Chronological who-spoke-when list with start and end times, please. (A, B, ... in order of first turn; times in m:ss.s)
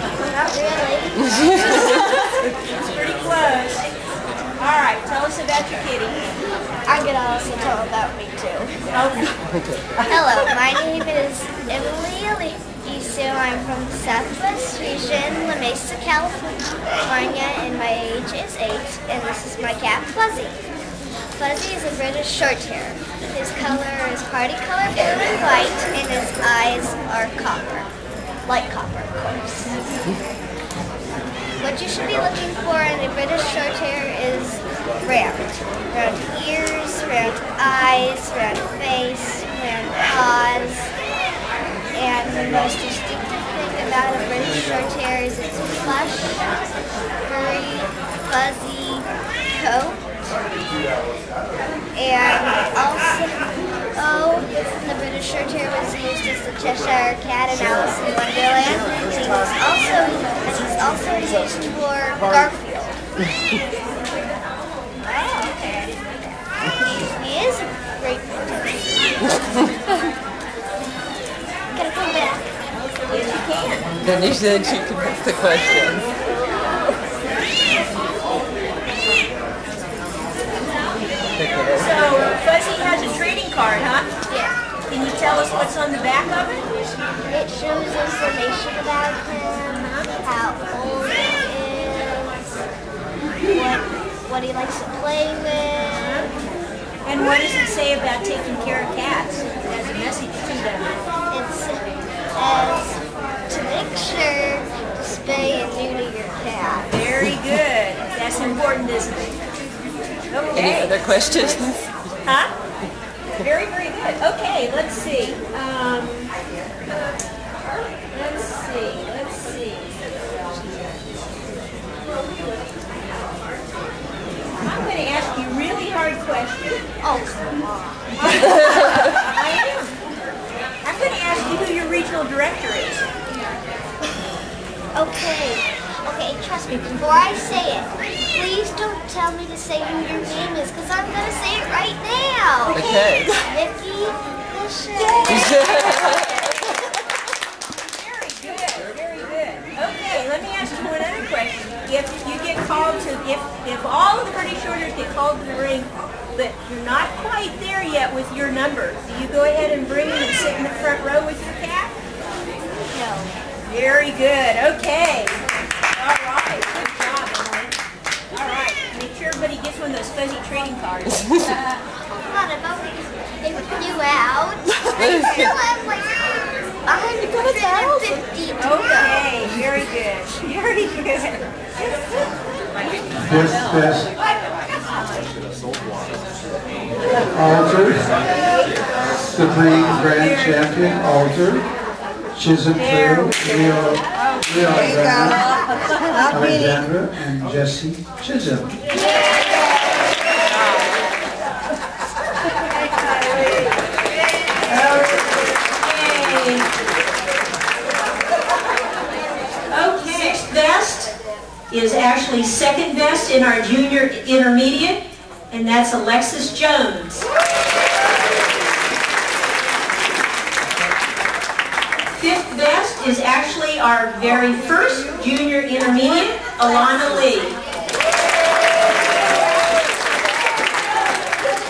0:00.2-0:01.3 A
0:01.4-0:04.0 B
0:04.6-0:06.3 B
0:06.8-0:08.8 A
0:08.9-0:09.4 B
0:10.0-0:20.6 A
0:21.3-0:27.9 A
0:28.4-0:30.0 A
0:31.6-0:40.9 A
0:41.9-0:46.6 A
0:47.2-0:50.2 A
0:51.9-1:03.0 A
1:05.1-1:05.7 A
1:06.8-1:08.9 A
1:11.7-1:12.5 A
1:13.1-1:13.9 B
1:13.9-1:16.1 C
1:21.4-1:21.8 C
1:21.7-1:24.1 B
1:24.3-1:24.6 A
1:24.9-1:26.7 B
1:27.3-1:32.5 A
1:33.5-1:36.3 A
1:35.9-1:36.3 B
1:37.0-1:41.0 B
1:41.3-1:41.8 A
1:42.3-1:46.9 A
1:46.9-1:49.4 B
1:50.3-1:51.1 B
1:50.5-1:51.9 C
1:52.2-1:52.5 B
1:53.4-1:56.3 B
1:58.0-2:00.0 B
2:04.6-2:06.8 B
2:07.0-2:08.1 A
2:08.1-2:09.9 B
2:10.8-2:13.0 B
2:14.9-2:22.8 A
2:22.7-2:23.5 B
2:22.8-2:23.3 C
2:23.4-2:26.3 A
2:25.0-2:26.5 B
2:25.3-2:25.7 C
2:27.8-2:42.0 B
2:42.8-2:43.3 A
2:43.7-2:45.4 B
2:45.9-2:47.8 B
2:48.3-2:51.5 B
2:52.2-2:59.2 A
2:55.0-2:55.5 C
2:58.6-3:01.5 B
3:03.1-3:04.1 D
3:07.2-3:08.3 D
3:09.1-3:11.7 D
3:10.1-3:10.7 B
3:12.3-3:15.5 D
3:12.8-3:13.7 B
3:16.2-3:18.7 D
3:24.6-3:26.7 B
3:29.7-3:31.1 B
3:31.7-3:37.3 B
3:42.2-3:47.6 B